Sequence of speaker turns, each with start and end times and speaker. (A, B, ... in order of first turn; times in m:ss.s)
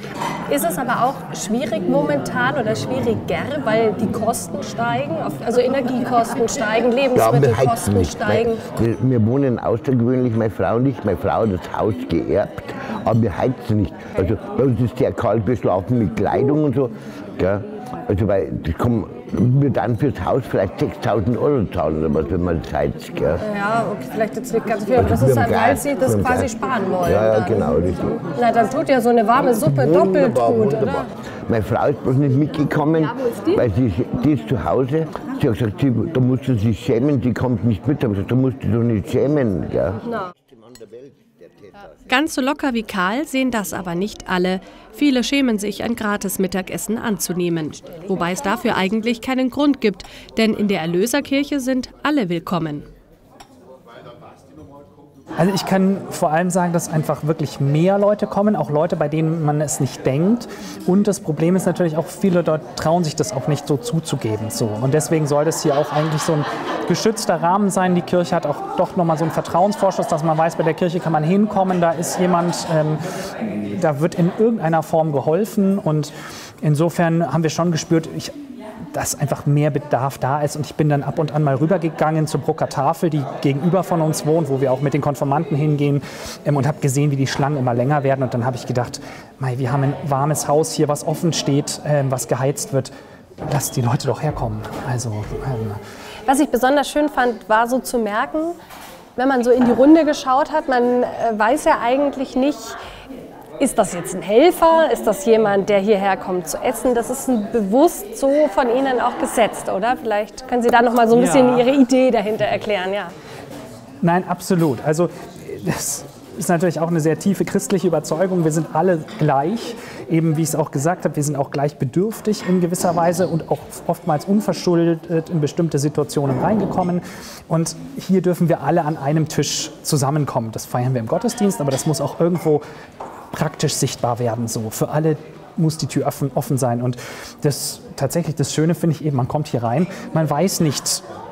0:00.5-0:08.6 A
0:07.1-0:23.4 B
0:23.4-0:27.7 A
0:25.0-0:28.2 B
0:28.2-0:31.0 A
0:29.6-0:41.9 B
0:42.1-0:52.8 C
0:55.4-1:18.3 D
1:18.9-1:32.9 D
1:33.4-1:35.8 D
1:36.2-1:38.6 A
1:39.2-1:42.8 A
1:43.6-1:53.1 A
1:51.1-1:51.7 D
1:54.0-2:12.6 D
2:13.3-2:21.0 D